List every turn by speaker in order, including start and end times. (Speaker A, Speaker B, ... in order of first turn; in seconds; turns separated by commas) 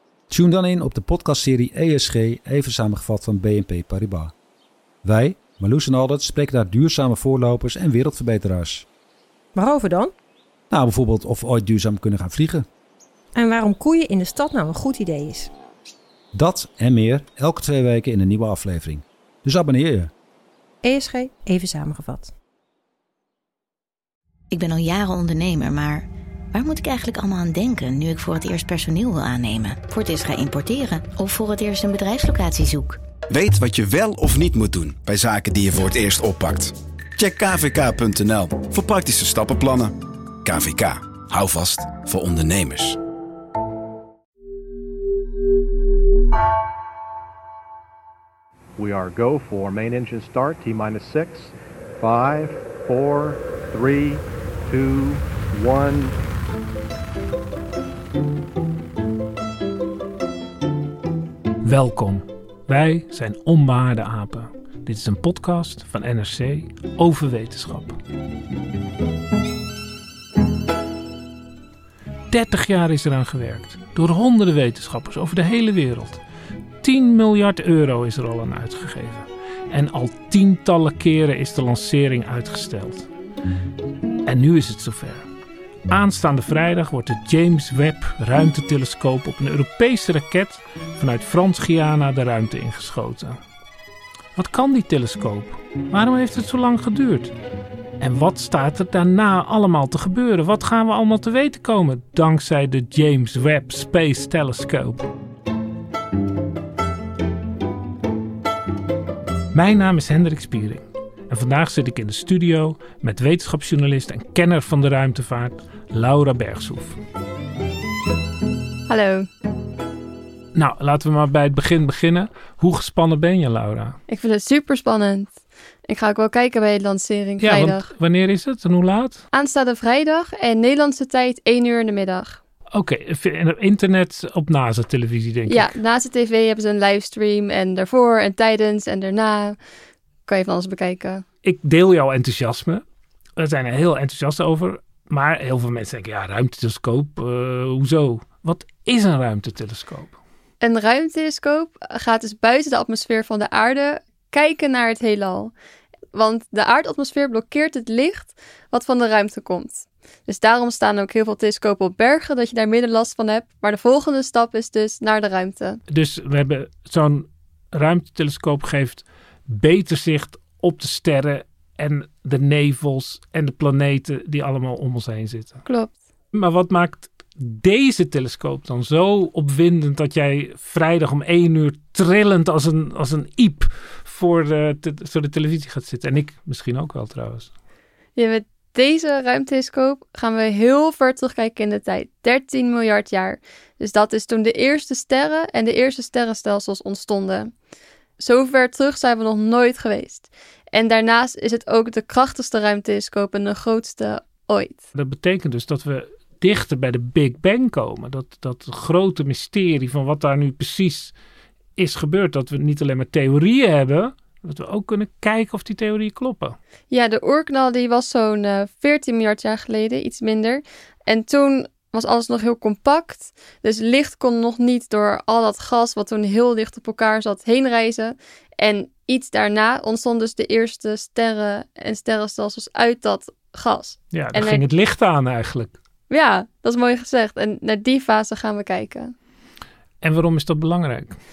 Speaker A: 0.3-4.3, Speaker A: 5.0-8.8, Speaker B: 9.5-10.1, Speaker A: 10.7-12.7, Speaker B: 13.3-15.5, Speaker A: 16.3-20.1, Speaker B: 20.8-22.3, Speaker C: 24.5-33.0, Speaker D: 33.3-43.0, Speaker E: 48.8-56.2, Speaker F: 61.6-68.0, Speaker F: 72.3-76.2, Speaker F: 76.8-83.1, Speaker F: 84.2-85.2, Speaker F: 85.9-93.4, Speaker F: 94.4-97.3, Speaker F: 98.0-105.1, Speaker F: 109.5-117.0, Speaker G: 118.9-119.3, Speaker F: 120.5-124.0, Speaker G: 124.1-125.3, Speaker G: 125.9-127.9, Speaker F: 127.4-129.2, Speaker G: 129.3-132.4, Speaker F: 132.7-135.7, Speaker G: 135.5-139.6, Speaker G: 140.3-141.2, Speaker F: 141.4-142.8, Speaker F: 143.4-150.1, Speaker G: 150.6-155.5, Speaker G: 156.1-165.8, Speaker F: 165.9-175.6, Speaker G: 175.7-175.9, Speaker F: 176.3-187.5, Speaker G: 188.2-197.5, Speaker G: 198.2-204.8, Speaker F: 204.9-211.1, Speaker F: 211.8-216.6, Speaker G: 216.9-234.6, Speaker F: 234.1-235.7, Speaker G: 236.1-239.1, Speaker F: 240.0-241.2